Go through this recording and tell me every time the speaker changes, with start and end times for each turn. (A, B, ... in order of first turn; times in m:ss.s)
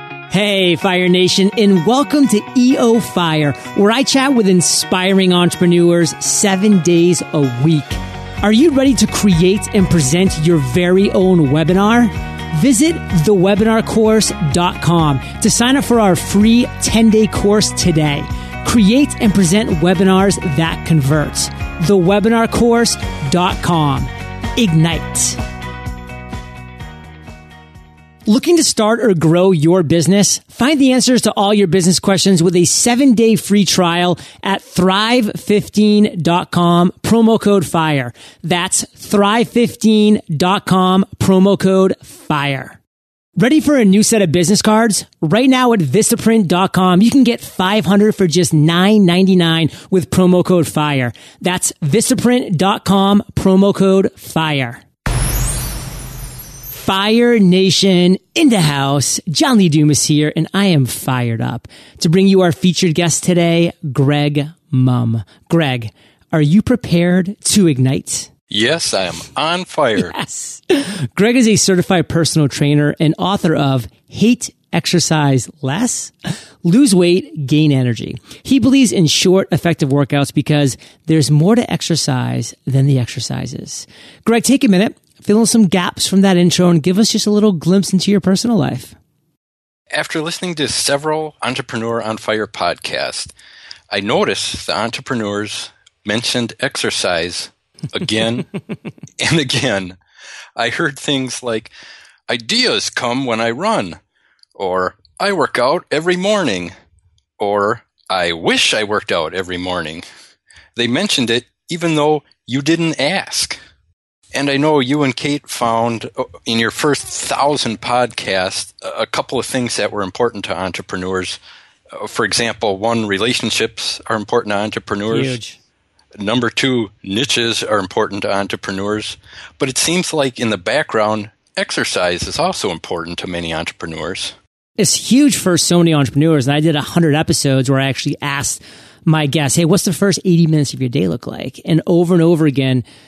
0:00.3-0:25.4 A
0:28.3-0:42.8 A
0:43.4-0:54.8 A
0:56.7-1:08.3 A
1:08.5-1:10.2 B
1:10.0-1:29.0 A
1:29.9-1:33.3 B
1:33.9-1:38.5 B
1:39.2-1:40.0 B
1:40.6-1:41.7 B
1:42.3-1:44.0 B
1:44.6-1:46.7 B
1:47.4-1:50.0 B
1:50.8-1:53.6 B
1:54.3-2:01.4 B
2:01.9-2:05.4 B
2:05.1-2:05.6 A
2:06.2-2:14.4 B
2:14.8-2:22.8 A